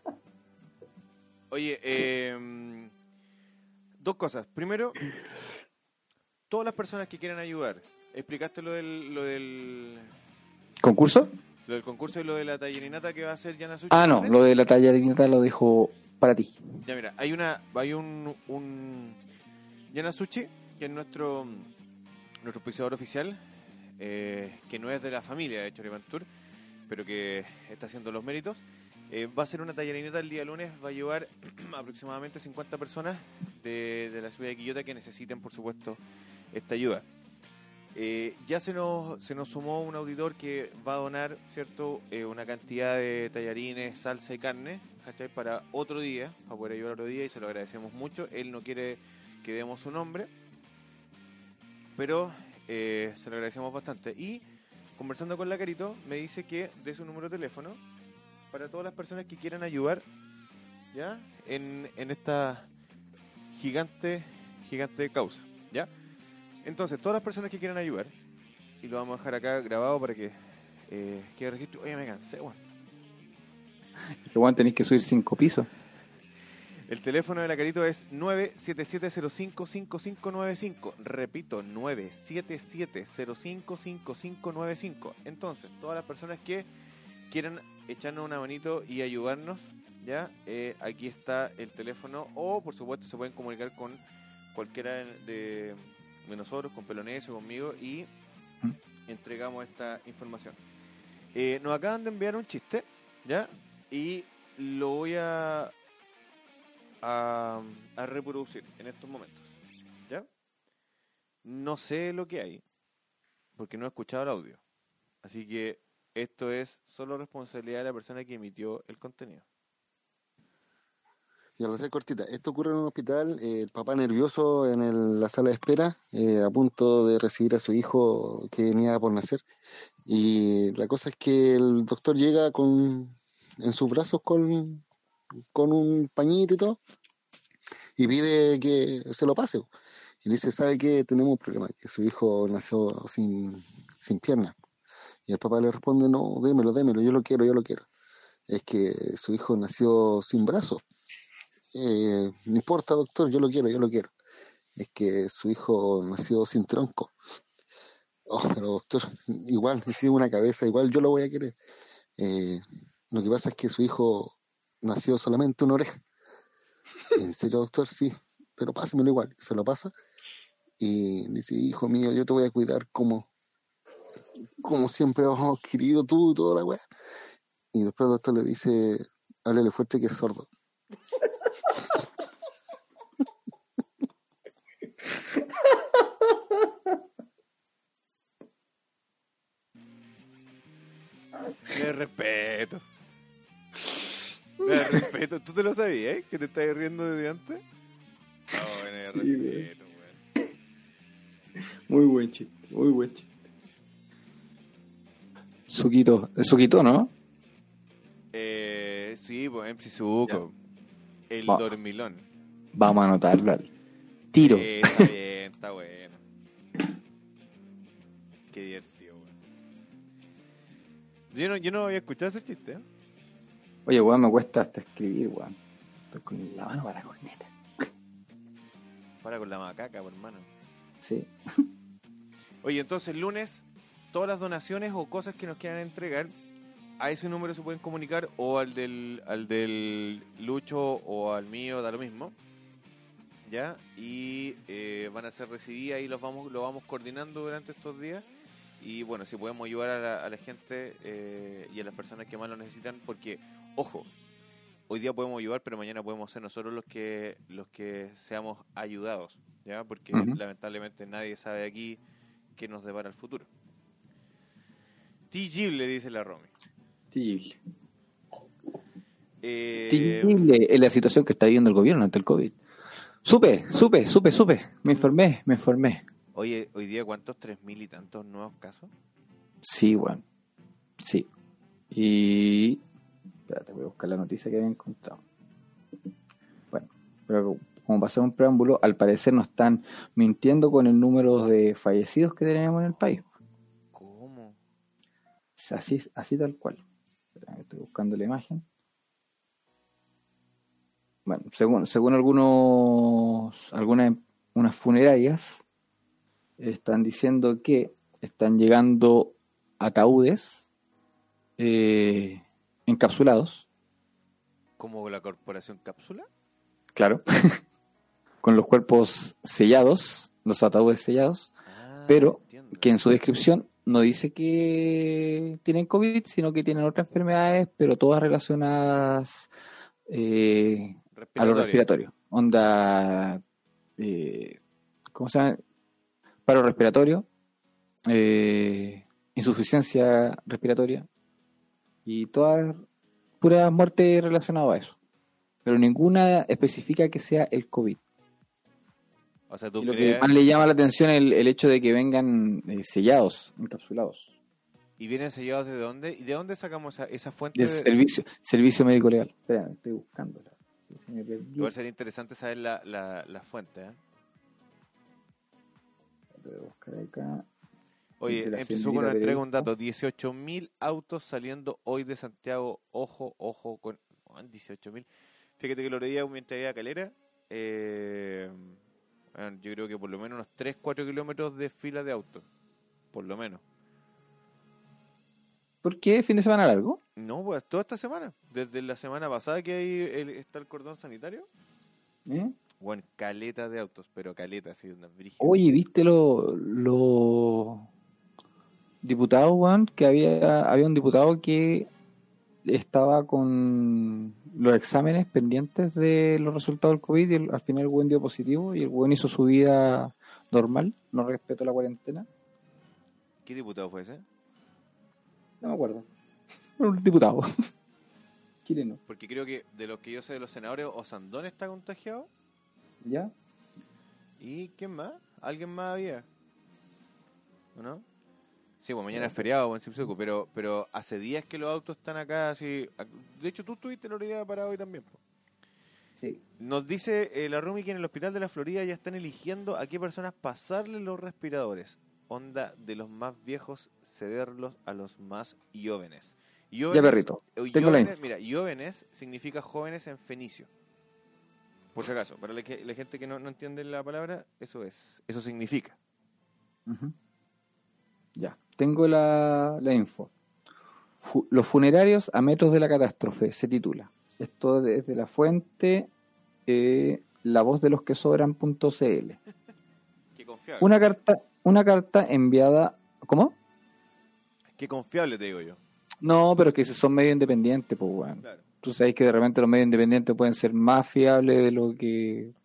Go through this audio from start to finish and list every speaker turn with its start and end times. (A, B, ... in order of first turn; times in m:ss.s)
0:01.5-0:02.9 A
0:04.0-0:05.0 A
0:06.5-0:10.1 A
0:10.8-0:11.3 B
0:11.6-0:14.4 A
0:13.9-0:16.6 B
0:16.8-0:19.2 A
0:19.9-0:21.7 A
0:22.4-0:23.4 A
0:24.0-0:26.3 A
0:26.9-0:36.0 A
0:36.5-0:37.0 A
0:37.9-0:50.3 A
0:52.0-0:54.4 A
0:55.0-0:57.8 A
0:58.5-1:00.0 A
1:00.9-1:02.7 A
1:03.5-1:05.9 A
1:06.6-1:08.1 A
1:08.8-1:12.6 A
1:14.2-1:15.7 B
1:16.9-1:26.7 A
1:27.3-1:34.0 A
1:34.5-1:38.1 A
1:39.1-1:40.6 A
1:41.3-1:45.7 A
1:47.0-1:49.5 A
1:51.4-1:52.6 A
1:53.6-1:54.6 A
1:55.2-1:59.4 A
2:01.6-2:09.4 C
2:10.1-2:14.8 C
2:15.5-2:16.8 C
2:18.0-2:19.7 C
2:20.2-2:24.5 C
2:25.3-2:27.8 C
2:28.5-2:30.8 C
2:31.7-2:34.1 C
2:34.8-2:37.1 C
2:38.3-2:41.6 C
2:42.2-2:46.0 C
2:47.1-2:49.9 C
2:50.8-2:53.3 C
2:54.6-2:56.8 C
2:57.7-3:00.5 C
3:11.6-3:12.8 A
3:14.6-3:17.6 A
3:14.7-3:15.0 B
3:18.5-3:20.2 A
3:19.2-3:19.6 B
3:21.9-3:23.4 B
3:25.7-3:27.1 B
3:28.3-3:30.5 A
3:31.3-3:32.2 A
3:32.7-3:33.7 B
3:34.3-3:35.1 B
3:34.4-3:36.2 A
3:38.5-3:39.3 A
3:41.3-3:42.8 A
3:43.8-3:45.6 B
3:46.1-3:47.5 B
3:49.2-3:50.5 A
3:51.0-3:51.7 B
3:52.6-3:56.3 A
3:57.0-4:02.3 A
4:03.4-4:08.2 A
4:08.8-4:14.1 A
4:14.9-4:22.0 A
4:20.1-4:20.4 B
4:22.5-4:23.5 A
4:25.3-4:26.5 A
4:27.1-4:27.6 B
4:29.4-4:30.5 A
4:29.9-4:32.6 B
4:33.2-4:36.0 B
4:36.3-4:38.9 A
4:39.6-4:40.2 B
4:41.0-4:41.3 B
4:41.9-4:42.8 B
4:43.5-4:45.2 B
4:46.7-4:53.2 B
4:53.9-4:54.6 A
4:55.6-4:56.8 B
4:57.4-4:58.6 B
5:01.2-5:05.6 B
5:06.6-5:10.6 B
5:11.6-5:13.6 B
5:14.8-5:16.3 A
5:16.9-5:17.6 B
5:18.4-5:21.5 B
5:21.6-5:22.9 A
5:22.1-5:29.5 B
5:30.1-5:33.4 B
5:31.1-5:31.9 A
5:34.0-5:34.6 B
5:35.1-5:35.6 B
5:36.4-5:37.3 B
5:38.1-5:41.1 B
5:42.0-5:42.8 B
5:43.4-5:45.0 B
5:45.6-5:48.0 B
5:49.5-5:50.3 A
5:49.8-5:54.3 B
5:55.0-5:57.9 A
5:57.5-6:01.7 B
6:01.6-6:04.0 A
6:06.3-6:07.4 B
6:08.2-6:15.1 A
6:08.3-6:09.7 B
6:15.6-6:18.8 A
6:19.3-6:22.4 A
6:23.1-6:23.6 A
6:25.8-6:27.0 B
6:27.2-6:31.5 A
6:32.2-6:32.5 B
6:32.8-6:35.6 A
6:35.4-6:37.9 B
6:39.0-6:41.9 B
6:42.6-6:52.3 B
6:53.4-6:54.2 A
6:55.6-6:56.1 B
6:56.8-6:57.5 B
6:58.6-6:59.0 B
6:59.1-7:02.3 A
7:03.0-7:03.3 B
7:04.4-7:06.2 A
7:07.7-7:08.0 A
7:08.8-7:15.2 A
7:16.6-7:30.7 A
7:26.9-7:28.1 B
7:31.9-7:36.0 A
7:36.8-7:37.1 B
7:38.4-7:40.3 B
7:41.2-7:46.1 B
7:46.6-7:49.4 B
7:50.4-7:51.0 A
7:50.8-7:53.6 B
7:54.7-7:55.8 A
7:56.2-8:02.5 B